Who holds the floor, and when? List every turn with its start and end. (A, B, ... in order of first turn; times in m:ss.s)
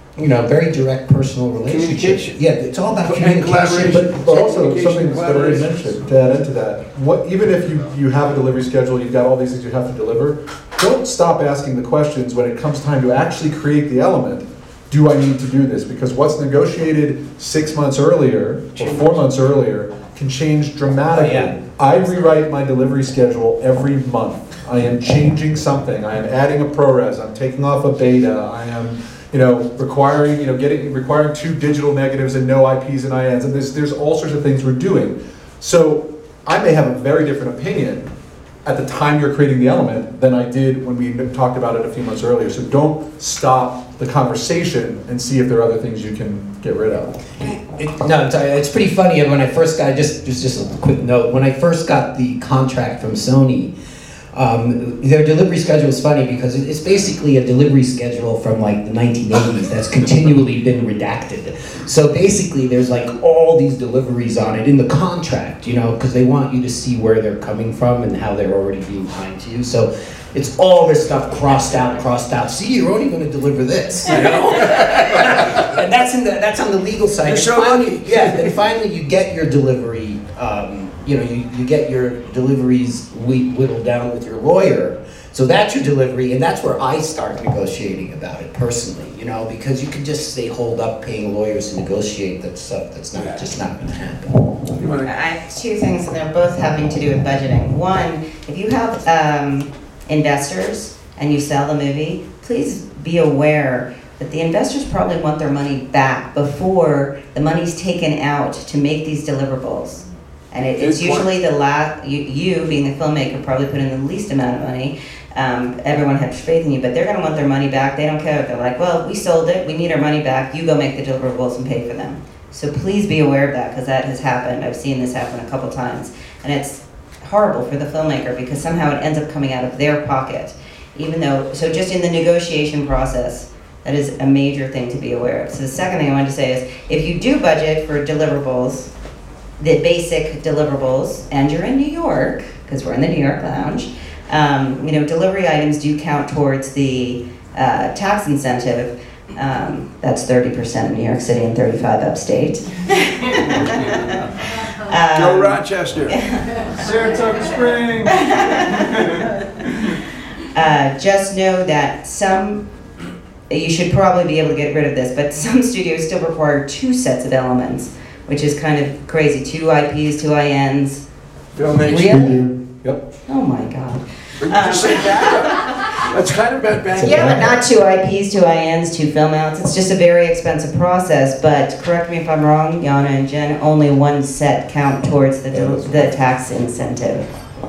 0:00.2-0:04.1 A
0:01.6-0:02.4 B
0:03.0-0:06.0 B
0:03.8-0:38.1 C
0:18.8-0:19.2 B
0:21.1-0:21.6 A
0:38.6-0:47.2 C
0:47.4-0:53.7 A
0:54.3-1:34.4 A
1:14.1-1:15.6 B
1:17.2-1:18.5 B
1:33.1-1:33.5 B
1:34.7-1:35.2 B
1:35.0-2:18.9 D
1:50.8-1:51.3 B
2:19.6-2:36.9 D
2:35.1-2:36.4 B
2:36.7-2:39.4 E
2:38.1-2:38.9 D
2:40.5-2:42.6 D
2:43.5-2:51.0 D
2:51.5-2:52.4 B
2:51.9-2:52.3 D
2:52.0-2:53.0 C
2:53.3-2:55.8 D
2:54.4-2:57.6 B
2:56.9-2:57.6 C
2:57.0-3:07.3 D
3:05.5-3:06.1 C